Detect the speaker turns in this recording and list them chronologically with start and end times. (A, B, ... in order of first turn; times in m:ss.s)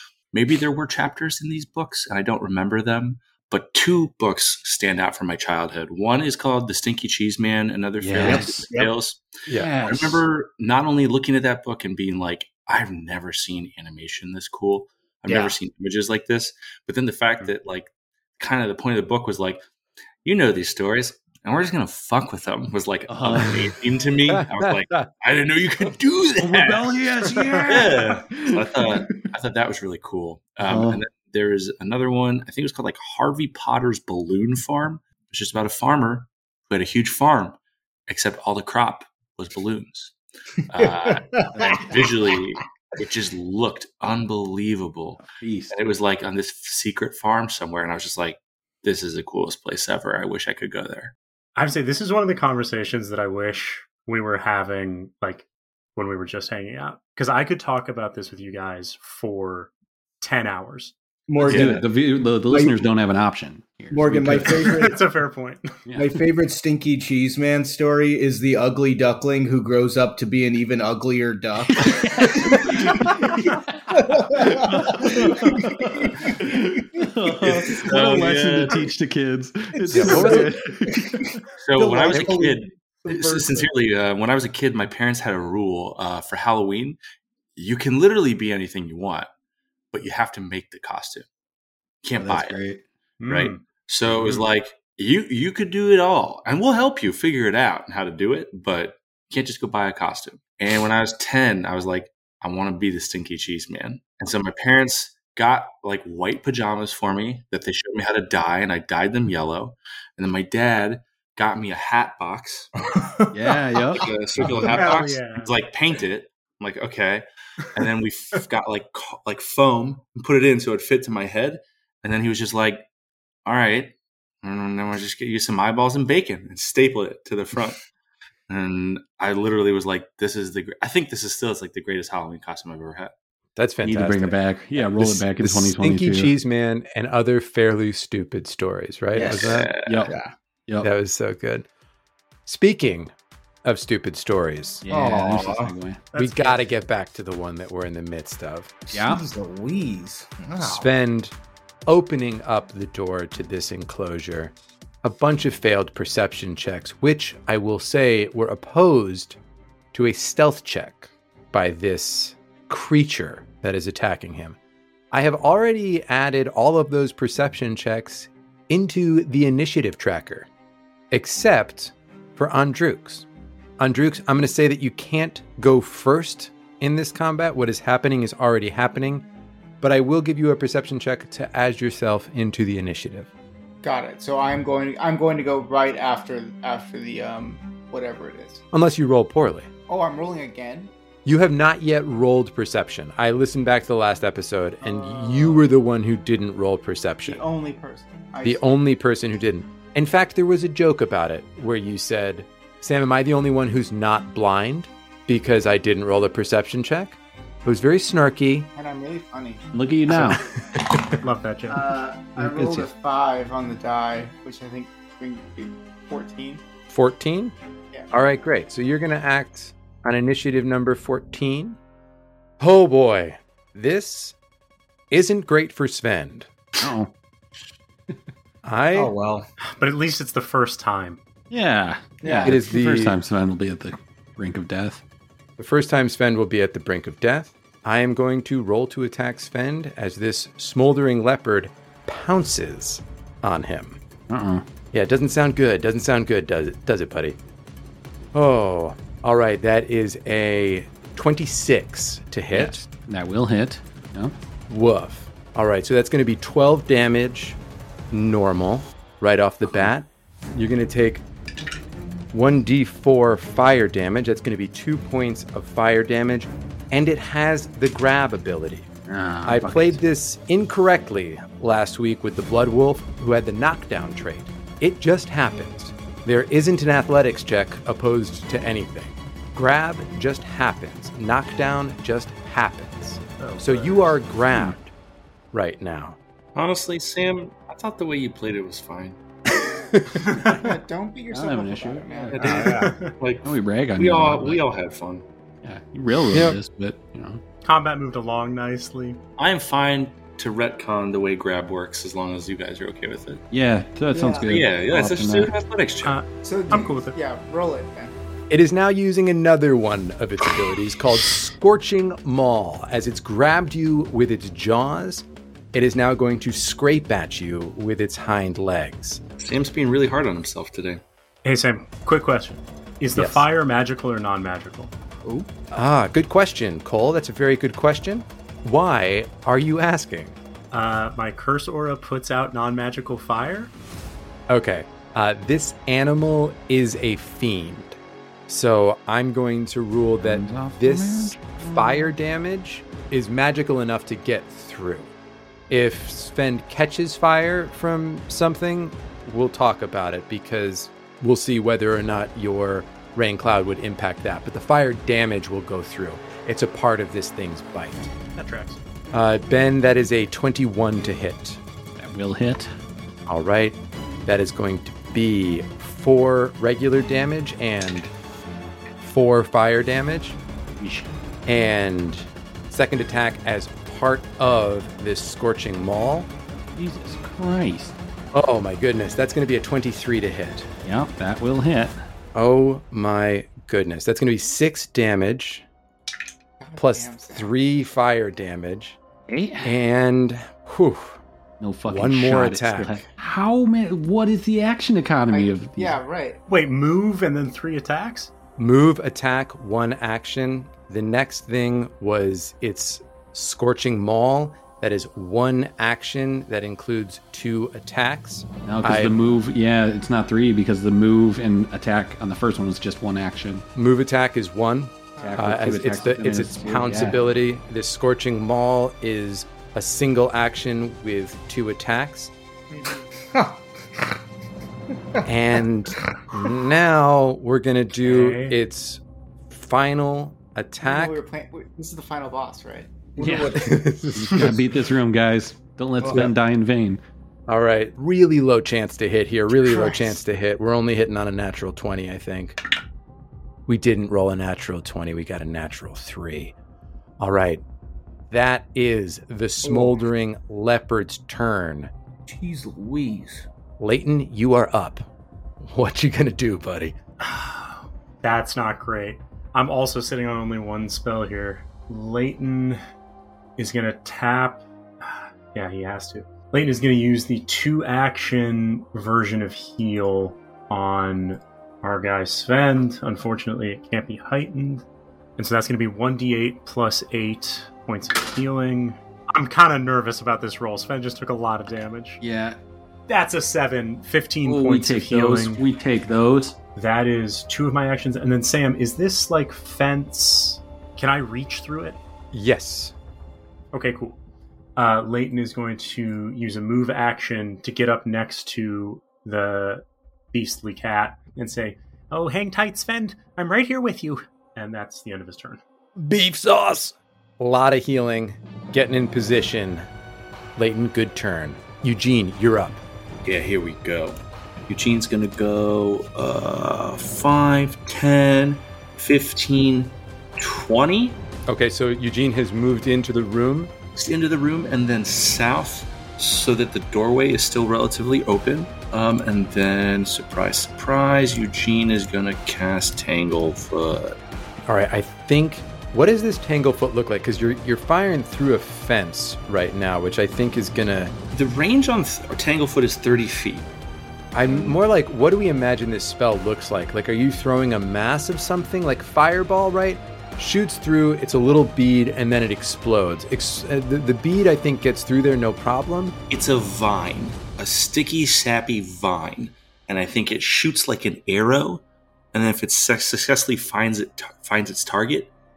0:00.3-0:09.3 A
0:08.0-0:08.7 B
0:08.2-0:08.9 C
0:09.5-0:10.2 B
0:09.8-0:19.6 A
0:20.2-0:40.1 A
0:23.1-0:23.8 B
0:24.3-0:25.1 D
0:26.4-0:29.3 B
0:30.6-0:31.0 B
0:40.7-0:51.1 A
0:40.8-0:41.5 C
0:41.5-0:41.9 B
0:45.2-0:45.7 B
0:51.5-0:59.7 E
1:00.2-1:00.9 E
1:01.3-1:01.8 C
1:01.4-1:04.9 B
1:01.4-1:01.9 A
1:02.5-1:02.8 C
1:03.9-1:05.0 C
1:04.6-1:05.8 E
1:05.8-1:06.1 B
1:06.0-1:17.9 C
1:11.7-1:21.4 B
1:17.4-1:18.8 A
1:19.8-1:23.7 C
1:19.9-1:20.5 D
1:21.6-1:27.0 A
1:27.6-1:29.3 A
1:29.9-1:31.2 A
1:32.0-1:32.6 A
1:32.2-1:32.8 B
1:33.2-1:33.6 E
1:33.3-1:52.7 A
1:34.1-1:34.4 B
1:52.9-1:53.5 C
1:53.3-1:54.1 B
1:53.9-2:02.9 A
1:54.4-1:55.5 E
2:03.4-2:07.8 A
2:08.5-2:13.1 A
2:13.6-2:19.7 D
2:13.8-2:16.3 B
2:19.1-2:20.3 C
2:19.2-2:20.1 A
2:19.8-2:20.1 B
2:20.8-2:21.7 D
2:22.4-2:23.1 D
2:23.6-2:24.8 D
2:24.8-2:26.1 B
2:24.9-2:25.7 C
2:26.1-2:26.6 E
2:26.1-2:28.9 D
2:28.9-2:30.9 C
2:28.9-2:29.2 B
2:30.6-2:31.3 D
2:31.8-2:39.4 D
2:39.9-2:44.6 D
2:45.1-2:50.5 D
2:51.1-2:53.3 D
2:53.8-2:59.2 D
2:59.8-3:03.3 D
3:03.8-3:08.6 F
3:08.7-3:09.7 D
3:09.9-3:10.9 F
3:11.2-3:17.4 D
3:14.8-3:15.7 F
3:17.2-3:18.6 F
3:18.4-3:28.7 D
3:28.7-3:29.6 F
3:29.7-3:30.4 B
3:30.3-3:31.0 D
3:31.2-3:31.9 E
3:31.7-3:36.6 F
3:32.4-3:32.8 B
3:36.9-3:37.5 D
3:38.1-3:41.8 D
3:42.6-3:44.4 D
3:45.1-3:46.5 D
3:46.8-3:47.1 B
3:48.6-3:49.1 D
3:48.9-3:49.5 C
3:49.6-3:51.2 E
3:51.5-3:55.0 B
3:52.2-3:52.6 F
3:52.4-3:53.2 D
3:55.6-4:04.0 D
4:04.3-4:04.6 B
4:04.9-4:07.4 D
4:08.3-4:12.9 D
4:12.5-4:14.3 B
4:14.7-4:17.6 D
4:18.1-4:21.2 D
4:19.6-4:19.9 B
4:22.3-4:28.9 D
4:29.1-4:30.0 B
4:29.4-4:44.9 D
4:43.4-4:44.2 E
4:45.5-4:46.2 D
4:46.6-4:49.2 A
4:50.3-4:52.8 F
4:51.3-4:52.6 B
4:52.3-4:55.2 A
4:52.4-4:52.9 C
4:52.5-4:53.1 E
4:53.4-4:54.6 B
4:55.6-4:57.4 B
4:56.3-4:56.6 D
4:57.6-4:59.2 E
4:59.4-5:03.4 A
5:03.5-5:05.5 B
5:04.1-5:04.5 F
5:04.5-5:06.2 A
5:06.0-5:07.1 E
5:06.4-5:08.1 F
5:08.5-5:19.2 D
5:19.4-5:21.0 A
5:21.4-5:24.9 E
5:23.1-5:23.4 D
5:25.7-5:30.4 D
5:30.7-5:33.7 E
5:34.5-5:45.1 D
5:40.2-5:42.1 B
5:45.7-5:58.1 D
5:58.3-5:58.8 E
5:59.1-6:01.6 D
6:02.0-6:02.7 B
6:03.3-6:08.1 D
6:09.0-6:10.4 D
6:10.8-6:11.1 B
6:11.4-6:16.3 D
6:16.7-6:18.0 B
6:18.3-6:20.7 D
6:20.8-6:22.0 B
6:22.3-6:25.6 D
6:26.6-6:27.5 F
6:26.8-6:29.0 D
6:29.3-6:29.8 B
6:29.6-6:31.2 D
6:31.6-6:36.0 B
6:31.9-6:33.0 D
6:35.3-6:36.4 F
6:36.5-6:38.3 E
6:38.6-6:49.1 D
6:48.6-6:53.6 B
6:53.7-7:02.3 D
6:55.2-6:55.4 F
6:55.2-6:57.2 B
7:02.7-7:03.1 F
7:03.3-7:04.1 C
7:05.2-7:11.2 D
7:08.0-7:08.6 E
7:10.8-7:12.9 F
7:13.2-7:13.8 C
7:13.2-7:17.0 B
7:13.6-7:14.6 D
7:16.0-7:16.3 C
7:17.5-7:22.6 D
7:23.7-7:26.5 D
7:27.2-7:27.6 D
7:28.3-7:31.9 D
7:29.6-7:30.0 C
7:32.3-7:33.4 C
7:33.8-7:35.0 D
7:35.6-7:37.0 D
7:37.2-7:42.8 E
7:43.6-7:54.8 E
7:55.4-8:02.2 E
8:02.2-8:02.6 B
8:03.1-8:05.6 E
8:04.4-8:06.6 B
8:06.8-8:12.0 E
8:12.3-8:12.9 D
8:13.7-8:14.2 E
8:14.8-8:25.6 E
8:26.0-8:29.8 D
8:30.6-8:32.8 D
8:33.2-8:41.2 A
8:41.5-8:43.7 D
8:44.0-8:54.2 A
8:54.6-9:01.1 D
9:01.3-9:03.7 A
9:04.3-9:16.2 D
9:16.3-9:25.3 A